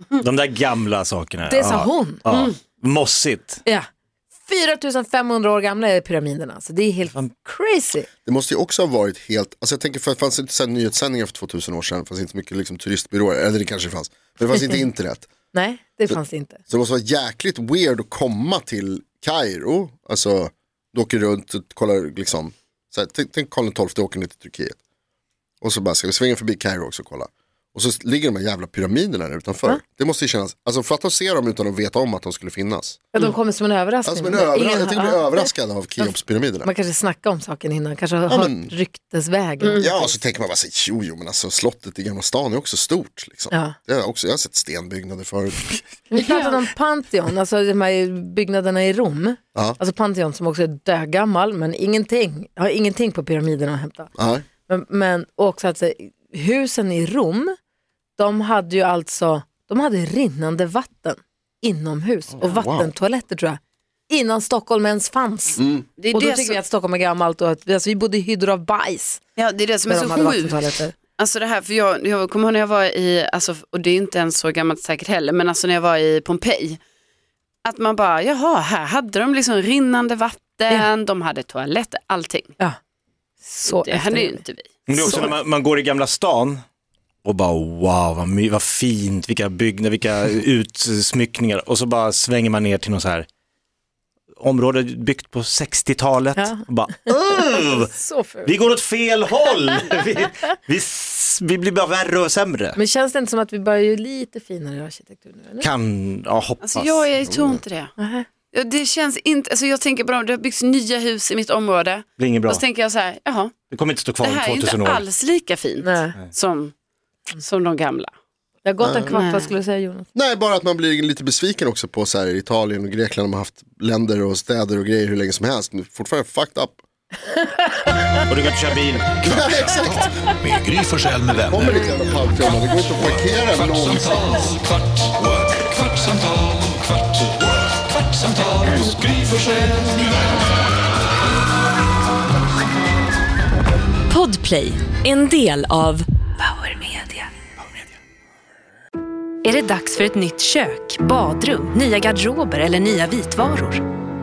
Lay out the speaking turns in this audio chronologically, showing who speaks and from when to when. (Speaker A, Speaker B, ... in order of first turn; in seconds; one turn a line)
Speaker A: 0.2-3.6
Speaker B: 1.5-2.2
Speaker C: 2.2-2.6
Speaker B: 4.5-8.1
Speaker D: 8.2-15.3
Speaker B: 15.5-16.6
Speaker D: 16.7-24.8
Speaker D: 25.6-33.0
Speaker B: 33.1-40.1
Speaker D: 34.0-36.7
Speaker D: 38.3-38.7
Speaker C: 39.6-39.9
Speaker D: 39.8-45.8
Speaker B: 43.5-43.8
Speaker B: 46.1-54.1
Speaker C: 46.2-46.5
Speaker D: 54.1-54.5
Speaker B: 54.7-57.5
Speaker B: 58.2-69.2
Speaker D: 62.4-62.9
Speaker D: 65.6-65.8
Speaker C: 66.0-66.6
Speaker C: 69.4-76.8
Speaker B: 69.9-70.9
Speaker C: 77.6-82.5
Speaker B: 83.4-84.4
Speaker C: 83.7-85.3
Speaker A: 84.9-86.6
Speaker B: 85.0-85.3
Speaker A: 87.2-93.3
Speaker A: 94.4-97.8
Speaker B: 96.4-96.6
Speaker B: 97.5-98.5
Speaker A: 98.5-102.8
Speaker B: 102.8-105.7
Speaker A: 105.6-107.1
Speaker C: 106.6-107.9
Speaker D: 107.3-107.6
Speaker B: 108.0-108.3
Speaker C: 108.5-113.6
Speaker A: 112.2-112.6
Speaker A: 113.7-115.0
Speaker C: 114.2-116.7
Speaker B: 115.8-116.1
Speaker C: 117.3-118.1
Speaker B: 118.6-120.1
Speaker D: 118.8-119.1
Speaker C: 119.1-119.5
Speaker D: 120.1-126.8
Speaker B: 127.3-128.1
Speaker A: 128.3-129.2
Speaker D: 129.2-130.1
Speaker E: 129.3-131.9
Speaker D: 131.5-134.5
Speaker E: 132.9-134.5
Speaker E: 135.5-136.0
Speaker E: 138.3-139.9
Speaker F: 144.1-147.3
Speaker F: 149.4-153.8